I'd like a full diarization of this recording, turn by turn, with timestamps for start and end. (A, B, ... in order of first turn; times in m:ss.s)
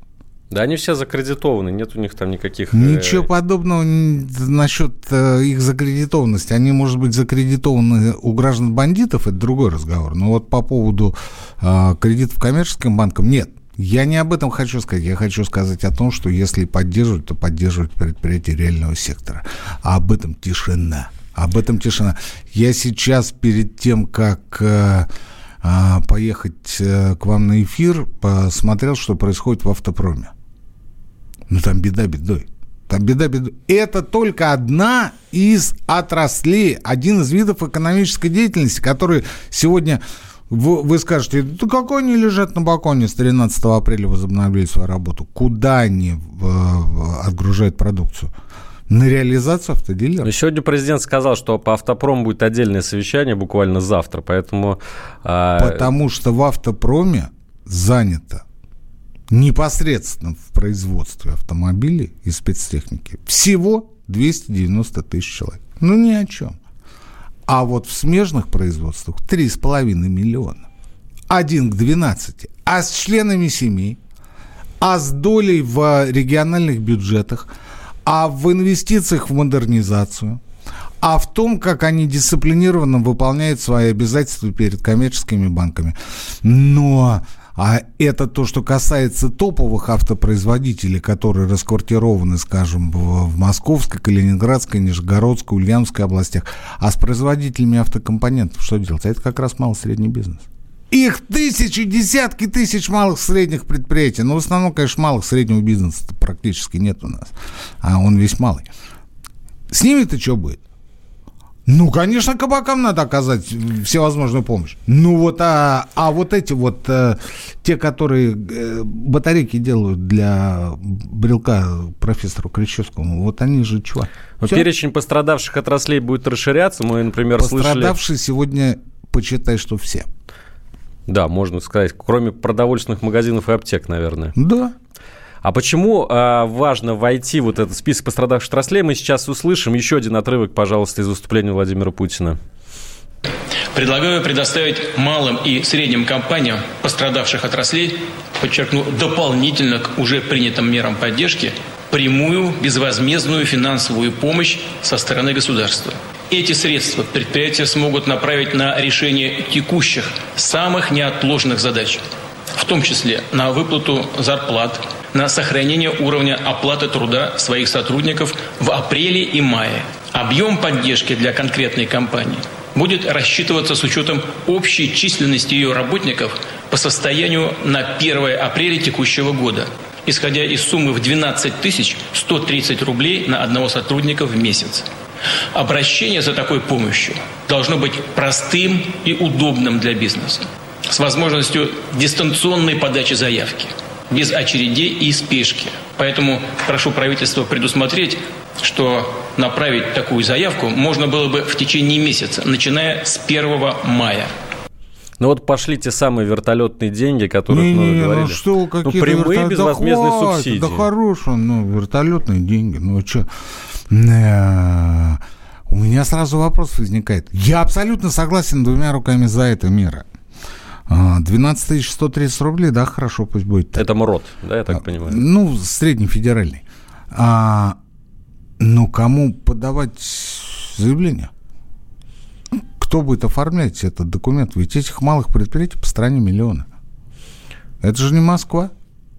0:00.5-0:03.3 A
0:02.7-0:25.1 B
0:25.6-0:30.3 B
0:31.5-0:48.3 B
0:48.9-0:50.3 B
0:50.2-0:55.9 A
0:55.6-0:58.4 B
0:59.3-1:06.6 B
1:07.5-1:10.7 B
1:11.3-1:14.0 B
1:14.8-1:17.5 B
1:18.0-1:20.4 B
1:21.0-1:48.7 B
1:49.7-1:50.6 B
1:51.7-2:04.7 B
2:04.4-2:08.0 A
2:07.4-2:10.1 B
2:11.1-2:14.4 A
2:14.4-2:14.8 B
2:15.4-2:22.4 A
2:23.7-2:42.0 C
2:42.6-3:04.9 C
3:05.5-3:24.3 C
3:25.2-3:30.9 A
3:27.5-3:33.3 B
3:33.9-3:40.0 B
3:40.9-3:43.9 B
3:43.8-3:45.2 A
3:44.7-3:47.8 B
3:48.6-3:51.3 B
3:52.5-3:56.7 B
3:57.8-3:58.7 B